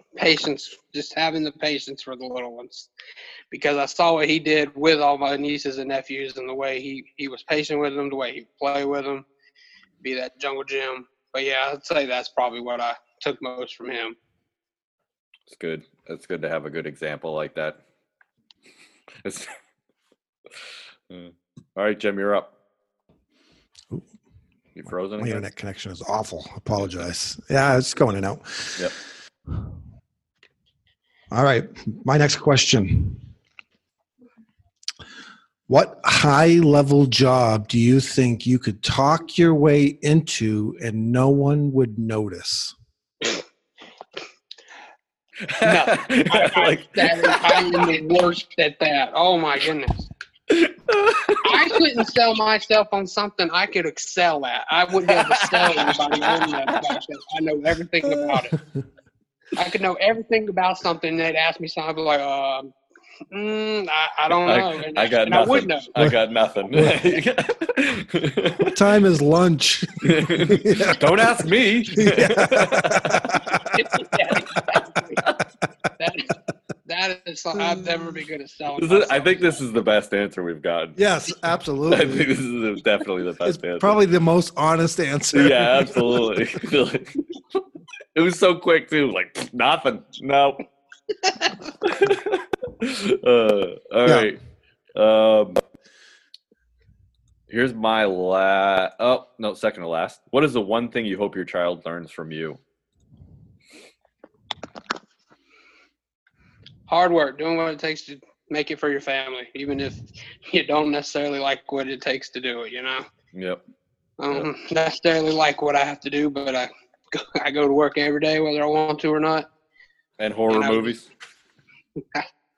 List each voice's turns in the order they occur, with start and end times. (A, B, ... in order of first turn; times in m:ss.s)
0:00.1-0:02.9 A
0:03.5-0:09.2 A
0:10.0-0:14.2 A
0:15.5-0:17.8 B
0:19.2-0:19.5 B
0:21.1-0:22.5 B
0:24.7-0:25.4 B
0:25.2-0:28.9 C
0:31.3-0:33.2 C
0:35.7-0:42.7 C
0:45.4-0:48.0 B
0:45.6-0:50.1 A
0:50.5-0:51.8 B
0:51.4-0:58.5 A
0:55.1-0:57.0 B
0:59.6-1:02.7 A
1:03.3-1:05.9 A
1:04.3-1:08.7 B
1:06.7-1:07.0 C
1:08.7-1:11.0 C
1:10.0-1:13.6 B
1:12.0-1:13.7 C
1:13.7-1:15.2 A
1:16.0-1:16.3 A
1:16.8-1:19.6 A
1:17.5-1:18.2 C
1:18.8-1:21.0 B
1:21.0-1:22.3 C
1:21.9-1:24.0 B
1:23.4-1:26.4 C
1:25.3-1:27.2 B
1:28.1-1:30.6 B
1:31.8-1:34.4 B
1:34.9-1:35.6 B
1:37.5-1:42.6 B
1:46.9-1:53.0 A
1:53.3-1:53.6 B
1:54.2-1:59.5 A
2:00.2-2:01.1 B
2:00.5-2:00.9 A